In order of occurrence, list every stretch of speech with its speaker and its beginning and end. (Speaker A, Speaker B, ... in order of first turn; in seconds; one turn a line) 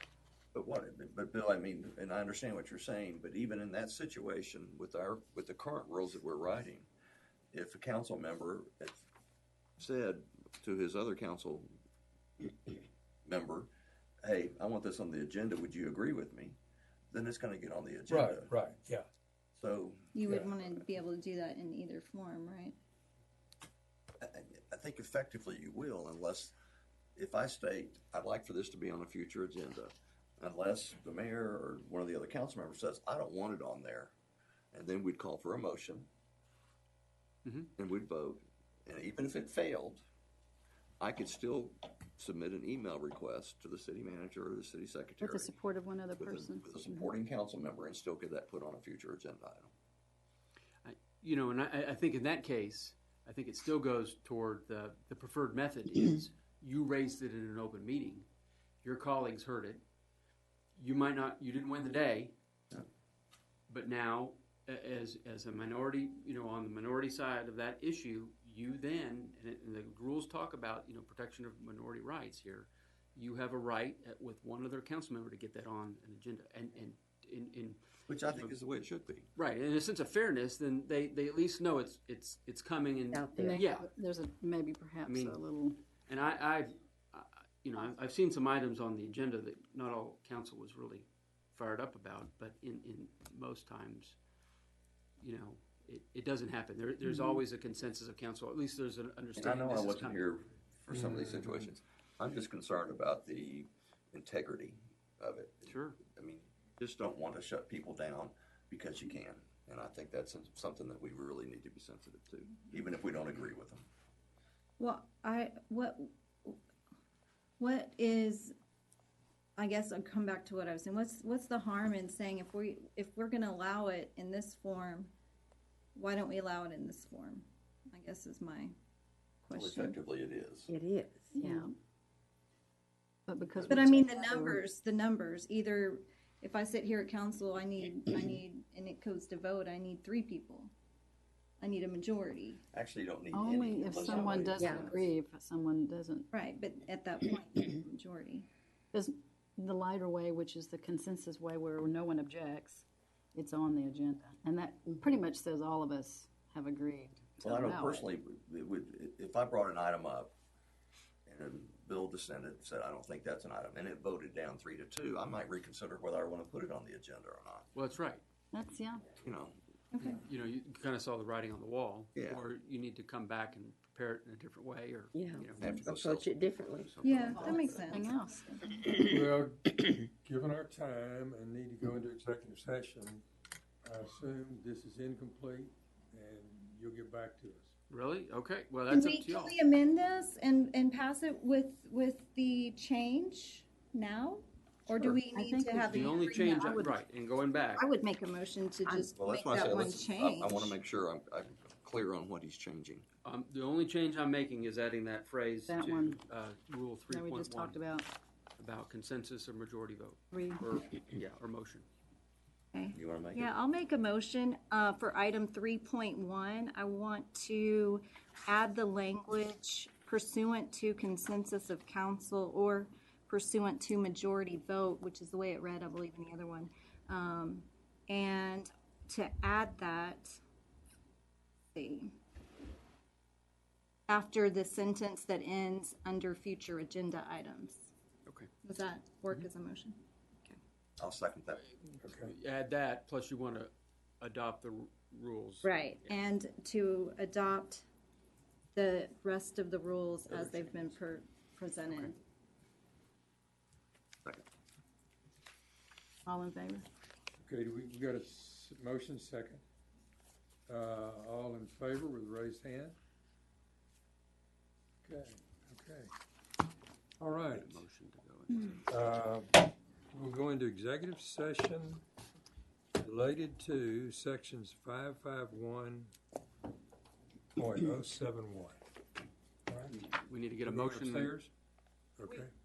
Speaker A: 0.5-6.9
Speaker A: 7.5-9.0
Speaker A: 9.8-11.7
Speaker A: 12.5-13.7
Speaker A: 14.2-16.6
Speaker A: 17.1-18.5
Speaker B: 18.1-19.1
Speaker A: 19.5-20.5
Speaker C: 20.1-22.8
Speaker A: 24.2-26.5
Speaker A: 27.1-34.1
Speaker A: 34.7-36.1
Speaker D: 37.4-37.7
Speaker A: 37.8-40.0
Speaker A: 41.0-45.5
Speaker E: 45.2-47.1
Speaker A: 46.1-49.7
Speaker D: 50.8-58.3
Speaker D: 58.8-59.8
Speaker D: 60.8-62.3
Speaker D: 63.7-78.6
Speaker A: 78.1-79.3
Speaker D: 79.3-83.9
Speaker F: 83.1-83.6
Speaker E: 83.3-85.8
Speaker D: 85.0-85.4
Speaker D: 86.1-94.2
Speaker D: 95.2-100.3
Speaker A: 99.4-113.9
Speaker B: 100.9-101.7
Speaker D: 105.7-106.0
Speaker C: 114.8-116.6
Speaker C: 117.6-118.5
Speaker C: 119.6-125.1
Speaker C: 125.9-128.7
Speaker C: 129.4-130.0
Speaker A: 129.5-130.7
Speaker F: 130.7-131.7
Speaker E: 131.3-131.7
Speaker E: 133.3-134.6
Speaker A: 133.5-134.2
Speaker C: 133.7-140.7
Speaker C: 141.6-142.6
Speaker A: 142.7-145.1
Speaker E: 143.3-146.3
Speaker F: 144.6-144.9
Speaker C: 146.3-148.5
Speaker E: 148.9-158.1
Speaker A: 157.4-160.3
Speaker A: 161.2-167.7
Speaker D: 167.7-168.2
Speaker E: 168.5-169.1
Speaker A: 169.2-169.6
Speaker C: 169.9-170.2
Speaker D: 170.0-175.8
Speaker A: 172.2-172.4
Speaker F: 175.1-176.9
Speaker A: 175.6-178.1
Speaker C: 177.0-178.6
Speaker E: 177.3-178.6
Speaker B: 179.0-183.2
Speaker B: 183.8-187.7
Speaker D: 187.9-189.6
Speaker C: 188.9-196.7
Speaker E: 195.0-197.0
Speaker D: 195.9-197.8
Speaker C: 197.8-200.8
Speaker A: 199.2-203.1
Speaker D: 203.2-207.8
Speaker E: 205.7-206.2
Speaker E: 207.1-208.1
Speaker D: 208.6-211.9
Speaker E: 210.3-210.6
Speaker C: 212.7-230.4
Speaker A: 212.9-213.5
Speaker C: 231.7-232.1
Speaker C: 234.1-237.9
Speaker C: 238.6-240.6
Speaker A: 241.0-241.6
Speaker D: 241.6-246.1
Speaker B: 242.0-242.3
Speaker C: 245.6-247.8
Speaker C: 248.7-252.2
Speaker D: 251.8-252.1
Speaker E: 256.2-256.9
Speaker B: 257.4-259.6
Speaker B: 260.7-263.0
Speaker B: 265.0-266.1
Speaker B: 267.2-267.8
Speaker D: 267.5-268.8
Speaker B: 268.9-272.0
Speaker B: 273.0-276.1
Speaker B: 277.6-278.8
Speaker B: 279.7-279.9
Speaker D: 279.9-281.3
Speaker B: 280.6-281.5
Speaker B: 282.2-282.5